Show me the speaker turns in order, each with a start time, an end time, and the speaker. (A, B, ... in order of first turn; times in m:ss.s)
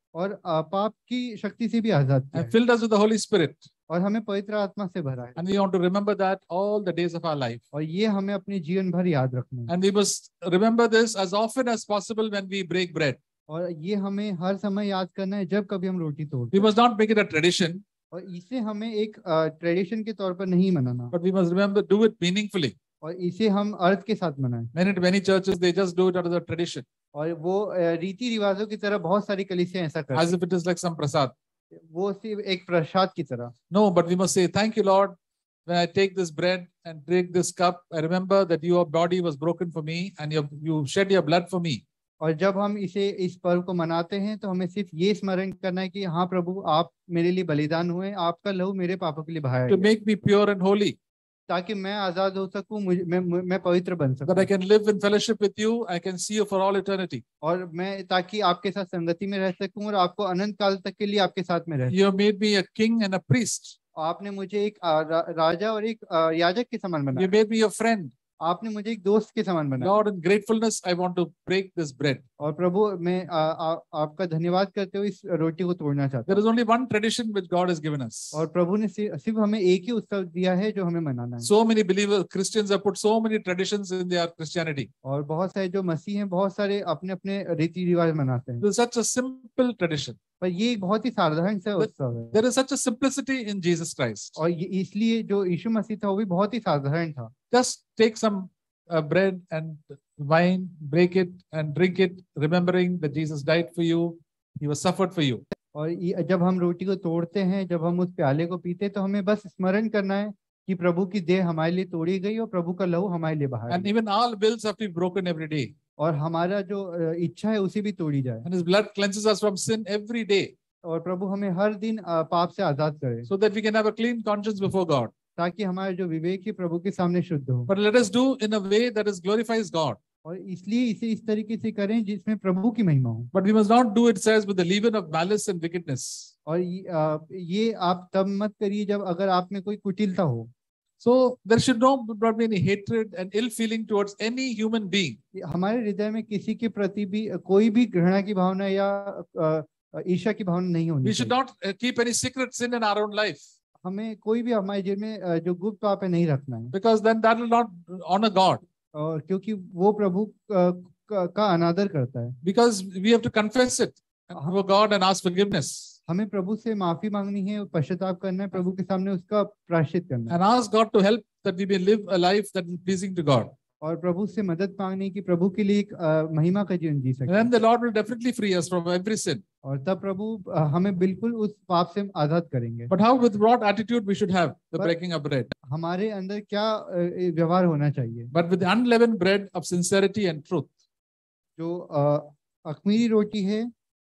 0:00.1-0:02.5 A
0:02.3-0:03.7 B
0:03.9-0:05.4 A
0:05.4-0:07.6 B
0:07.7-0:09.7 A
0:09.7-0:13.2 B
0:13.5-0:16.7 A
0:16.5-0:17.8 B
0:18.1-0:21.1 A
0:21.1-0:22.7 B
0:23.0-0:24.7 A
0:24.7-0:26.8 B
0:27.1-0:30.3 A
0:30.1-0:31.3 B
0:31.7-0:33.5 A
0:33.7-0:35.1 B
0:35.6-0:41.8 B
0:42.2-0:49.9 A
0:49.7-0:51.0 B
0:51.5-0:54.5 A
0:54.2-0:57.2 B
0:57.4-1:02.0 A
1:01.9-1:03.7 B
1:04.0-1:07.3 A
1:07.1-1:08.1 B
1:08.4-1:09.9 A
1:09.8-1:12.2 B
1:12.4-1:16.4 A
1:16.3-1:18.4 B
1:18.3-1:21.5 A
1:21.4-1:24.9 B
1:25.0-1:28.6 A
1:28.6-1:30.2 B
1:30.4-1:32.4 A
1:31.8-1:34.4 B
1:34.4-1:37.3 A
1:37.5-1:45.4 B
1:45.7-1:53.9 A
1:53.7-1:55.7 B
1:56.0-1:58.5 A
1:58.4-2:00.5 B
2:00.8-2:03.3 A
2:03.3-2:05.1 B
2:05.4-2:07.7 A
2:07.7-2:10.0 B
2:10.2-2:13.3 A
2:13.3-2:16.3 B
2:16.4-2:20.5 A
2:21.0-2:25.2 B
2:25.4-2:31.3 A
2:31.0-2:33.4 B
2:33.8-2:36.7 A
2:36.7-2:38.6 B
2:38.9-2:42.4 A
2:42.4-2:45.9 B
2:46.1-2:50.3 A
2:50.3-2:53.5 B
2:53.8-2:57.6 A
2:57.3-2:59.4 B
2:59.6-3:02.9 A
3:02.9-3:05.5 B
3:05.7-3:08.3 A
3:08.3-3:10.7 B
3:11.6-3:13.7 A